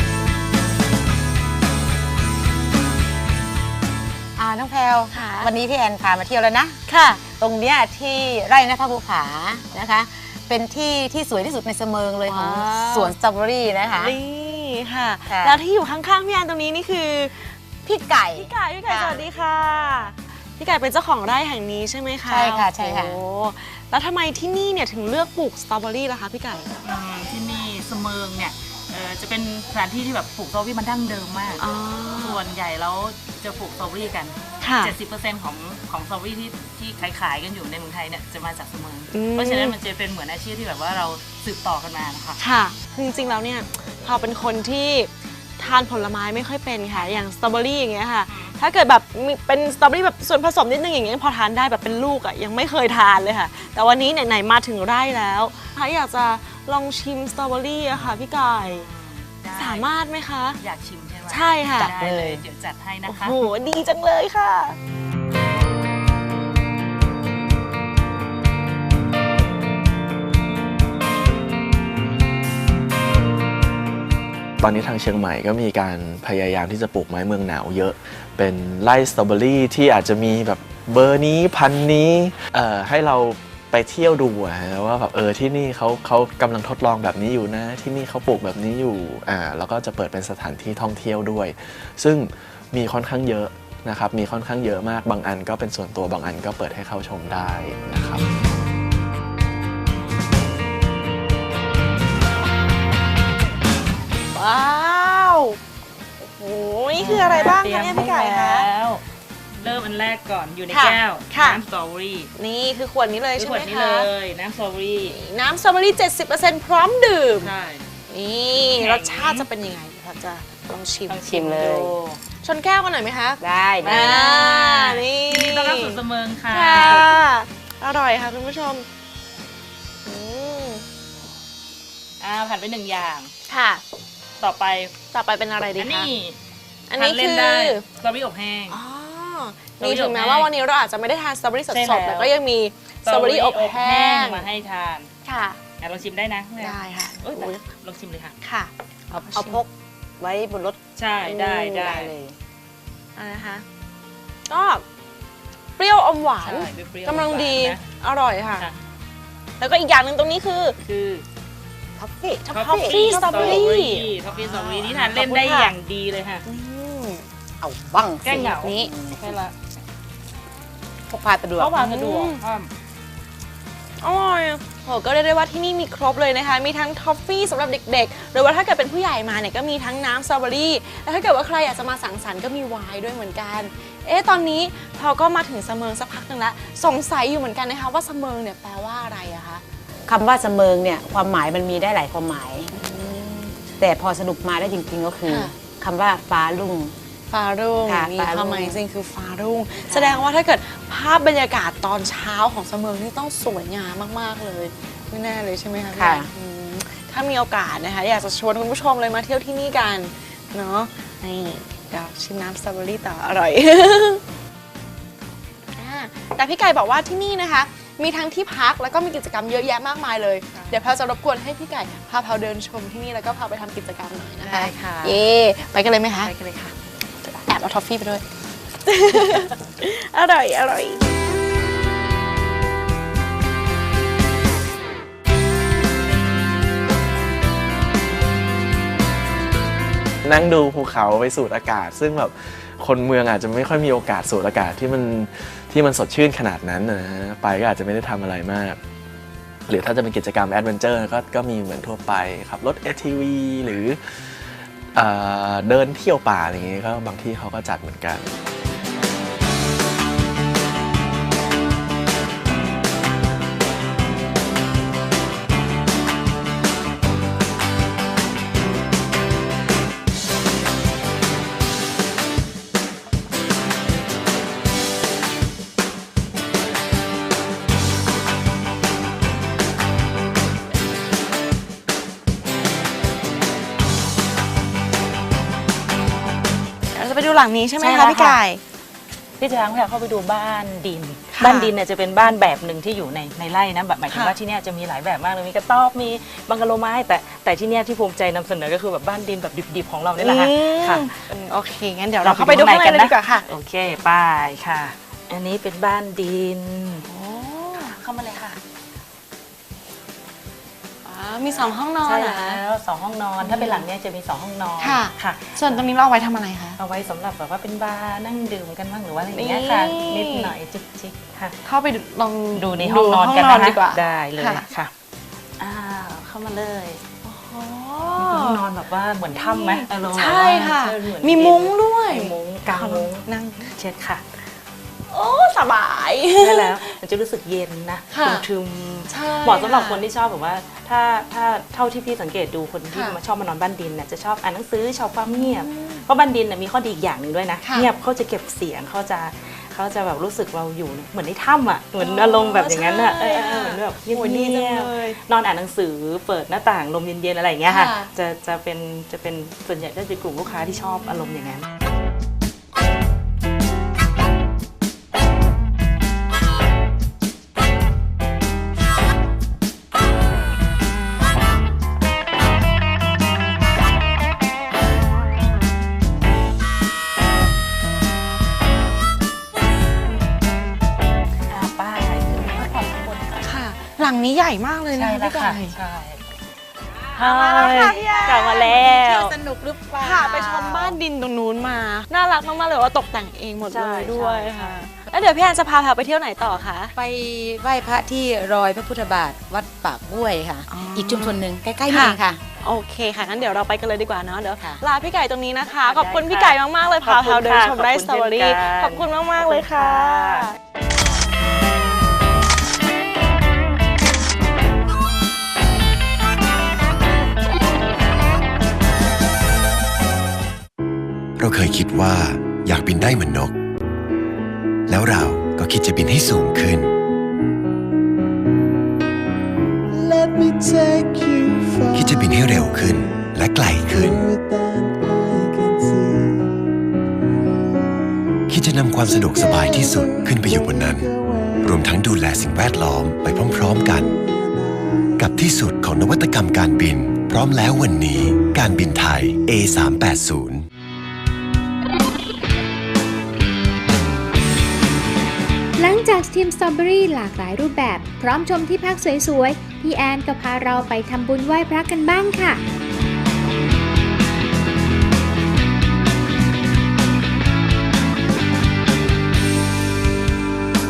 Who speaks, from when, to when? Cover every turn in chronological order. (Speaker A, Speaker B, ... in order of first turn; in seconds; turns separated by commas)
Speaker A: 4.3-14.2, Speaker B: 5.1-5.5, Speaker B: 6.9-7.2, Speaker B: 12.3-13.1, Speaker B: 13.9-17.5, Speaker A: 15.3-15.6, Speaker A: 17.8-19.2, Speaker B: 18.3-26.7, Speaker A: 22.2-23.2, Speaker C: 26.8-42.4, Speaker B: 31.6-32.4, Speaker B: 34.6-34.9, Speaker B: 39.1-39.8, Speaker B: 42.4-58.9, Speaker C: 46.9-47.2, Speaker C: 48.3-48.6, Speaker C: 58.7-59.9, Speaker B: 59.5-60.6, Speaker C: 60.6-63.4, Speaker B: 61.3-61.9, Speaker A: 61.8-62.4, Speaker B: 63.1-64.8, Speaker D: 74.6-98.2, Speaker B: 104.3-105.6, Speaker B: 106.2-108.7, Speaker C: 107.0-109.0, Speaker C: 109.6-112.3, Speaker B: 110.7-111.6, Speaker B: 112.3-114.1, Speaker C: 113.4-115.2, Speaker B: 115.1-117.5, Speaker C: 117.4-117.9, Speaker B: 118.1-121.2, Speaker C: 118.5-119.5, Speaker C: 121.1-122.2, Speaker A: 121.3-121.9, Speaker B: 122.4-128.8, Speaker A: 123.4-124.2, Speaker C: 123.8-127.1, Speaker B: 130.0-130.8, Speaker C: 132.2-133.3, Speaker B: 133.5-133.8, Speaker C: 134.4-134.9, Speaker B: 135.1-136.1, Speaker C: 135.8-136.4, Speaker B: 136.9-137.8, Speaker C: 136.9-138.8, Speaker B: 138.7-144.4, Speaker C: 139.8-140.5, Speaker C: 141.7-142.3, Speaker C: 143.0-145.1, Speaker B: 145.2-145.6, Speaker C: 145.8-148.3, Speaker B: 146.6-147.6, Speaker B: 148.4-149.7, Speaker C: 149.2-149.5, Speaker A: 149.3-149.6, Speaker B: 150.2-152.1, Speaker C: 150.9-152.1, Speaker B: 153.2-153.6, Speaker B: 154.5-154.8, Speaker B: 155.8-158.7, Speaker C: 156.4-157.8, Speaker B: 159.6-160.8, Speaker C: 160.8-161.2, Speaker A: 162.0-163.7, Speaker B: 162.5-165.7, Speaker C: 162.5-166.4, Speaker B: 166.4-167.2, Speaker A: 167.6-169.3, Speaker C: 168.2-169.5, Speaker B: 168.3-168.9, Speaker A: 171.1-171.8, Speaker C: 171.6-172.7, Speaker B: 171.8-172.4, Speaker B: 174.0-189.6, Speaker A: 190.1-192.7, Speaker B: 192.7-193.6, Speaker A: 193.8-196.9, Speaker B: 195.3-195.5, Speaker B: 197.3-214.2, Speaker A: 197.8-198.8, Speaker A: 199.9-200.3, Speaker A: 205.9-206.3, Speaker B: 215.8-226.3, Speaker A: 220.6-220.9, Speaker A: 224.4-225.2, Speaker A: 226.2-226.7, Speaker B: 227.2-228.2, Speaker B: 228.8-231.0, Speaker D: 240.2-248.8, Speaker D: 249.7-254.0, Speaker D: 254.9-258.3, Speaker B: 286.9-288.6, Speaker C: 287.8-288.4, Speaker C: 289.4-301.1, Speaker B: 291.3-291.7, Speaker B: 294.1-294.4, Speaker B: 300.2-303.4, Speaker C: 302.2-307.1, Speaker B: 307.0-308.0, Speaker C: 307.7-308.6, Speaker B: 311.0-312.6, Speaker C: 311.5-315.8, Speaker B: 313.4-313.9, Speaker B: 314.8-316.8, Speaker C: 316.8-321.6, Speaker B: 319.3-320.5, Speaker B: 321.6-324.7, Speaker C: 322.6-324.9, Speaker C: 325.6-327.0, Speaker B: 327.2-328.6, Speaker C: 328.2-334.2, Speaker B: 329.3-333.7, Speaker B: 335.1-336.8, Speaker C: 336.4-361.6, Speaker B: 338.1-338.4, Speaker B: 339.1-340.0, Speaker B: 342.9-343.2, Speaker B: 345.3-346.0, Speaker B: 347.6-347.9, Speaker B: 352.0-355.2, Speaker B: 357.6-358.1, Speaker C: 381.5-383.5, Speaker B: 383.4-385.8, Speaker C: 385.0-386.2, Speaker C: 387.1-388.9, Speaker A: 387.1-391.0, Speaker B: 387.2-389.3, Speaker B: 390.0-396.9, Speaker C: 393.7-394.8, Speaker A: 396.9-402.4, Speaker B: 400.7-410.5, Speaker C: 405.7-410.5, Speaker E: 421.4-423.5, Speaker E: 424.9-426.9, Speaker F: 429.9-436.5, Speaker E: 431.9-434.2, Speaker E: 438.5-441.1, Speaker F: 439.1-441.7, Speaker E: 441.6-444.1, Speaker F: 443.6-445.1, Speaker E: 445.2-450.6, Speaker G: 455.8-462.6